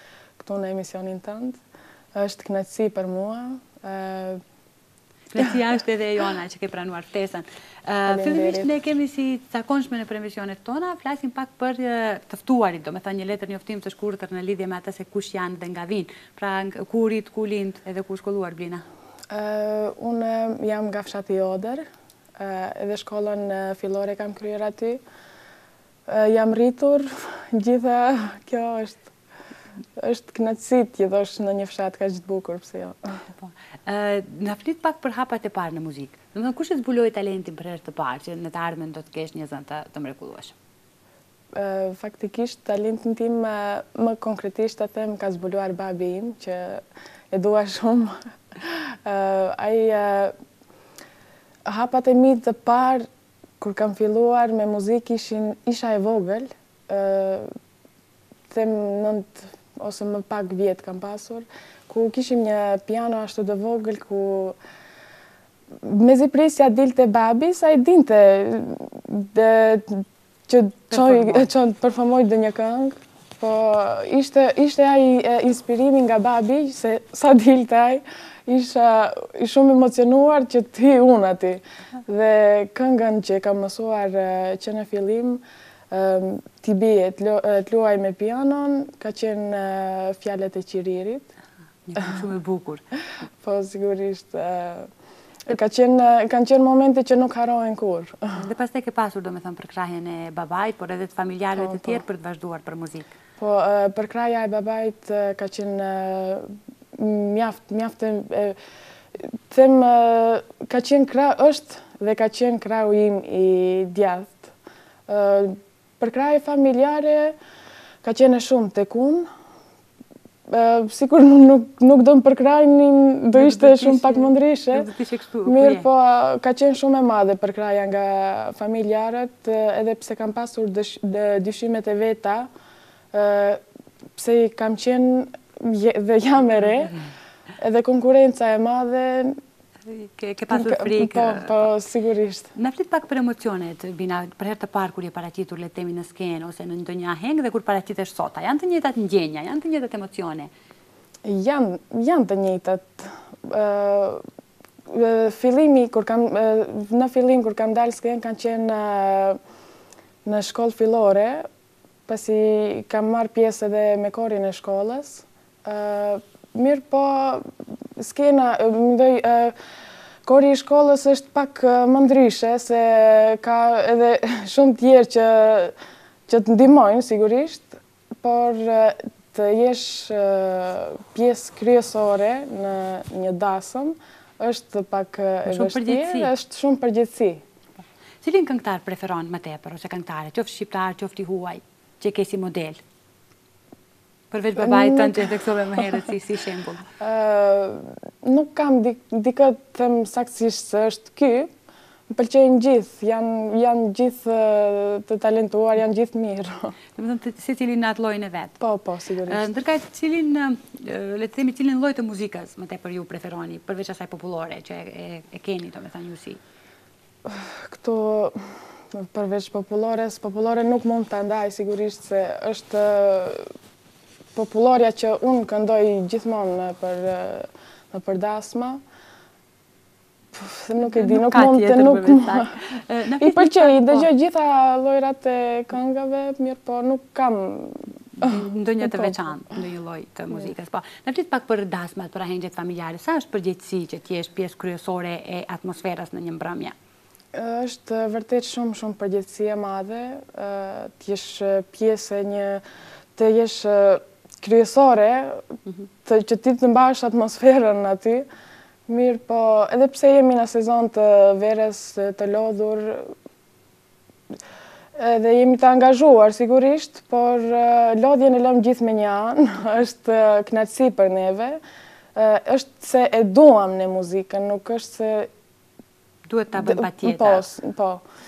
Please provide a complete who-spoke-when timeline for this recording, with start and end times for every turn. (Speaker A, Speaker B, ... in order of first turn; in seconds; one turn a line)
Speaker A: 0.4-1.6
Speaker A: 2.1-4.4
Speaker B: 5.3-18.8
Speaker A: 8.1-8.7
Speaker A: 19.3-21.9
Speaker A: 22.4-25.0
Speaker A: 26.1-29.1
Speaker A: 30.0-33.0
Speaker B: 33.4-40.5
Speaker A: 41.5-50.3
Speaker A: 51.6-53.1
Speaker A: 53.6-57.5
Speaker A: 58.5-64.6
Speaker A: 65.8-91.3
Speaker B: 70.9-71.5
Speaker B: 91.8-92.8
Speaker A: 93.4-94.9
Speaker A: 95.5-98.3
Speaker B: 98.3-103.1
Speaker A: 101.5-102.0
Speaker A: 103.4-108.6
Speaker A: 109.2-114.5
Speaker A: 115.1-117.3
Speaker A: 118.0-119.3
Speaker A: 120.5-124.9
Speaker B: 123.3-125.8
Speaker A: 125.4-132.5
Speaker A: 133.1-133.6
Speaker A: 134.2-137.0
Speaker A: 137.6-139.3
Speaker B: 139.9-141.7
Speaker A: 140.5-142.5
Speaker B: 142.5-150.5
Speaker A: 151.2-154.2
Speaker A: 154.9-159.4
Speaker A: 160.2-161.4
Speaker A: 162.1-169.5
Speaker A: 170.2-175.7
Speaker A: 176.3-187.4
Speaker B: 185.5-186.3
Speaker B: 188.2-192.8
Speaker B: 194.3-196.8
Speaker A: 194.6-195.5
Speaker A: 197.0-201.5
Speaker A: 202.1-206.7
Speaker B: 206.9-208.6
Speaker A: 208.6-209.4
Speaker B: 209.3-216.4
Speaker A: 217.2-218.4
Speaker A: 218.9-223.5
Speaker A: 224.3-228.8
Speaker A: 230.3-232.6
Speaker B: 230.8-234.1
Speaker A: 233.2-239.2
Speaker B: 238.2-246.7
Speaker A: 247.3-252.6
Speaker A: 253.2-255.4
Speaker A: 256.0-258.2
Speaker A: 258.9-263.1
Speaker A: 264.9-271.6
Speaker A: 272.1-275.3
Speaker B: 276.3-277.4
Speaker A: 276.6-278.0